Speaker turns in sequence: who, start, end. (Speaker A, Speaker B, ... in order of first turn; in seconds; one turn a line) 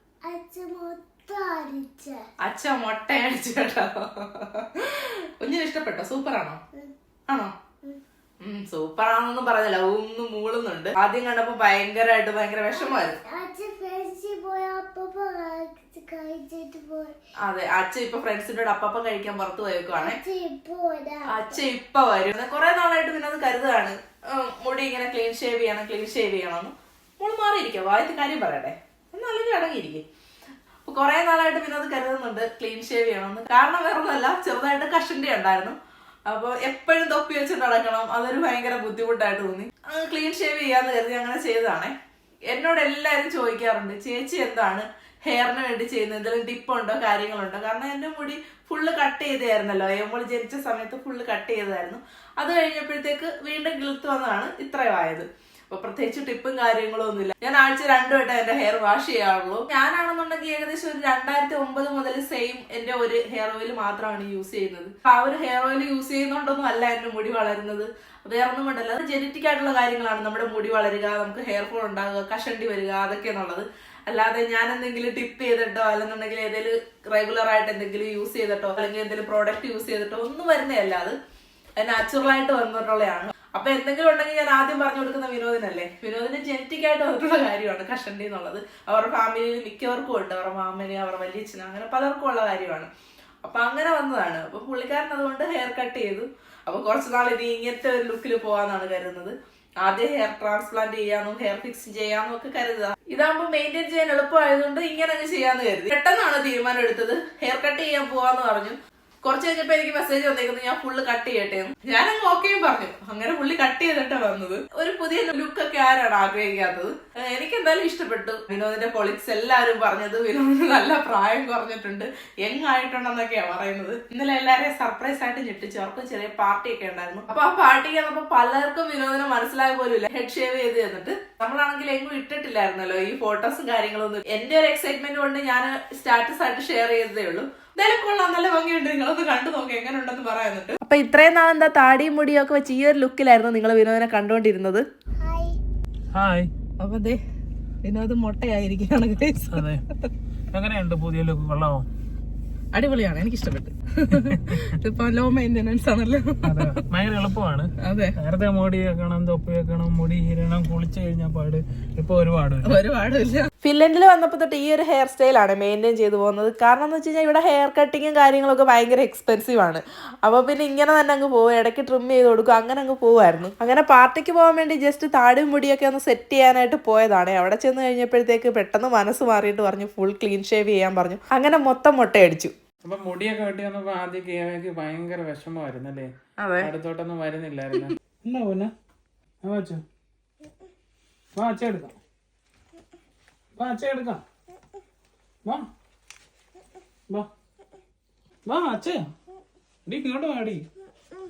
Speaker A: 0.3-2.2
Speaker B: 2.4-6.6
Speaker B: 8.4-13.2
Speaker A: 12.8-17.2
Speaker B: 17.5-20.2
Speaker A: 20.0-21.6
Speaker B: 21.3-30.1
Speaker B: 30.9-41.9
Speaker B: 42.5-81.2
Speaker B: 81.8-92.9
Speaker B: 93.4-144.8
Speaker A: 145.2-145.6
Speaker C: 146.1-146.5
Speaker B: 146.8-147.2
Speaker B: 147.8-149.6
Speaker C: 149.5-149.8
Speaker C: 150.5-151.9
Speaker B: 152.7-156.8
Speaker C: 154.2-154.6
Speaker C: 156.4-162.8
Speaker B: 157.8-158.2
Speaker B: 162.7-182.5
Speaker C: 182.8-188.7
Speaker B: 186.4-186.7
Speaker C: 189.4-189.8
Speaker C: 191.4-192.0
Speaker C: 193.6-194.2
Speaker C: 198.5-199.1
Speaker C: 199.9-200.7